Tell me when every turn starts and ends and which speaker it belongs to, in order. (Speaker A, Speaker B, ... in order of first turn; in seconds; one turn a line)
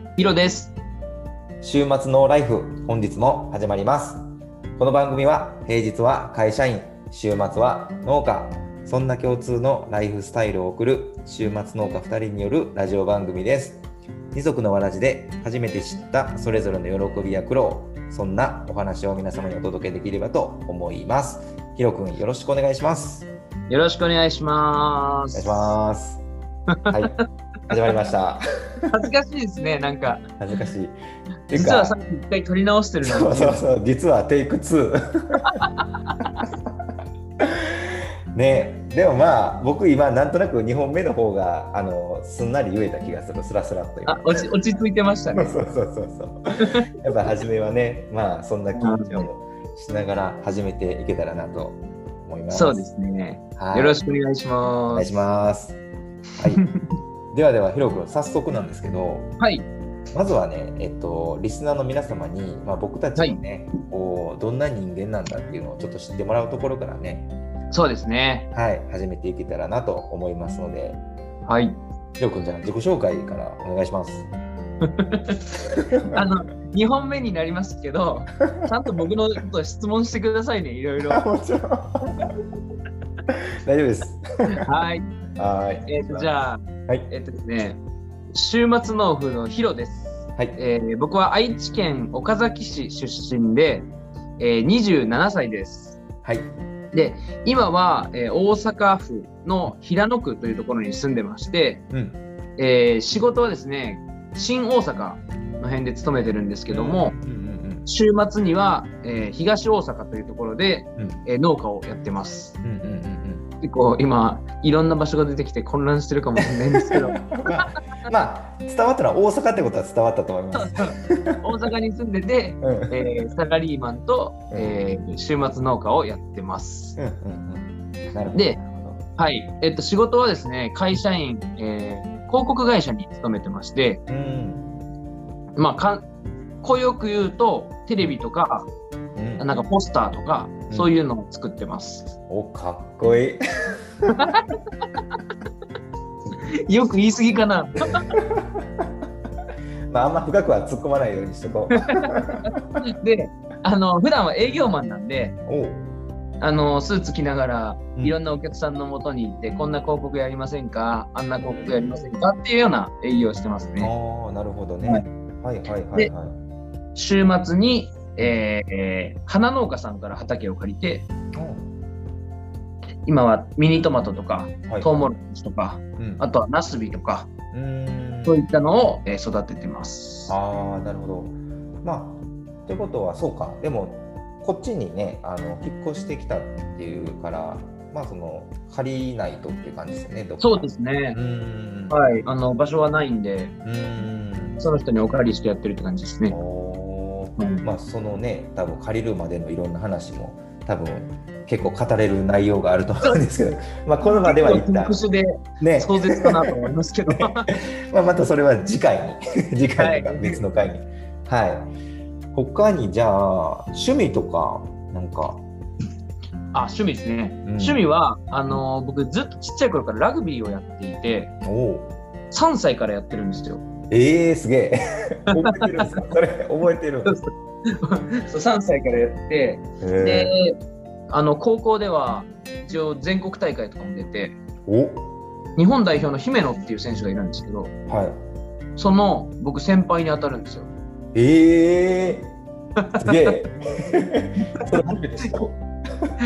Speaker A: 0.2-0.7
Speaker B: 1.6-4.3
Speaker B: 4.8-23.3
Speaker A: 23.7-25.8
Speaker B: 25.3-26.3
Speaker A: 26.9-27.2
Speaker B: 26.9-27.1
Speaker B: 27.7-28.4
Speaker A: 28.9-30.2
Speaker B: 30.4-31.0
Speaker B: 31.5-32.0
Speaker A: 31.5-33.6
Speaker B: 33.0-35.5
Speaker B: 37.4-37.8
Speaker B: 38.4-44.4
Speaker A: 44.1-45.6
Speaker B: 45.3-46.4
Speaker B: 47.0-52.9
Speaker A: 48.8-49.3
Speaker A: 52.5-55.2
Speaker B: 53.6-54.0
Speaker B: 54.9-55.8
Speaker B: 56.4-56.6
Speaker B: 57.3-59.3
Speaker A: 59.4-59.7
Speaker B: 60.1-67.3
Speaker A: 67.7-68.5
Speaker B: 68.5-71.0
Speaker A: 71.5-71.8
Speaker B: 72.2-74.3
Speaker A: 74.8-81.2
Speaker B: 81.1-82.3
Speaker B: 83.7-84.2
Speaker A: 84.6-85.1
Speaker B: 85.4-86.3
Speaker A: 85.9-87.8
Speaker A: 88.3-96.0
Speaker B: 96.2-96.6
Speaker A: 96.9-101.8
Speaker B: 101.9-102.2
Speaker A: 102.6-107.2
Speaker B: 106.7-107.9
Speaker A: 107.9-112.6
Speaker B: 111.0-111.2
Speaker B: 112.6-113.5
Speaker A: 113.6-117.3
Speaker B: 116.9-121.3
Speaker A: 120.5-127.0
Speaker B: 122.6-123.0
Speaker B: 124.5-124.8
Speaker B: 127.0-129.0
Speaker A: 128.3-128.6
Speaker A: 129.2-134.0
Speaker B: 134.1-134.7
Speaker A: 135.6-136.1
Speaker A: 136.6-138.7
Speaker B: 139.2-139.6
Speaker A: 139.4-142.1
Speaker B: 142.3-143.4
Speaker A: 146.7-148.1
Speaker B: 148.1-148.7
Speaker B: 149.9-152.8
Speaker A: 152.8-155.4
Speaker B: 155.5-155.9
Speaker A: 156.4-163.9
Speaker B: 161.4-162.1
Speaker B: 163.8-166.4
Speaker A: 166.9-171.1
Speaker B: 171.3-171.7
Speaker A: 173.0-177.3
Speaker B: 176.0-176.3
Speaker B: 177.5-178.4
Speaker A: 178.2-180.3
Speaker B: 180.3-192.0
Speaker A: 190.4-191.2
Speaker A: 191.9-193.5
Speaker B: 193.7-194.7
Speaker A: 194.6-196.4
Speaker B: 196.3-205.0
Speaker A: 197.4-197.6
Speaker A: 204.0-207.5
Speaker B: 205.6-206.4
Speaker B: 207.1-211.7
Speaker A: 209.8-210.4
Speaker B: 212.3-215.4
Speaker A: 216.5-221.3
Speaker B: 217.4-217.8
Speaker B: 221.4-221.9
Speaker A: 222.3-223.6
Speaker B: 223.9-227.2
Speaker A: 225.4-226.0
Speaker A: 227.1-230.6
Speaker B: 229.8-230.3
Speaker A: 231.1-234.4
Speaker B: 234.7-235.1
Speaker A: 235.6-237.7
Speaker B: 237.9-238.2
Speaker A: 238.8-240.7
Speaker B: 241.1-242.3
Speaker A: 242.9-243.3
Speaker B: 243.0-246.1
Speaker A: 244.6-245.3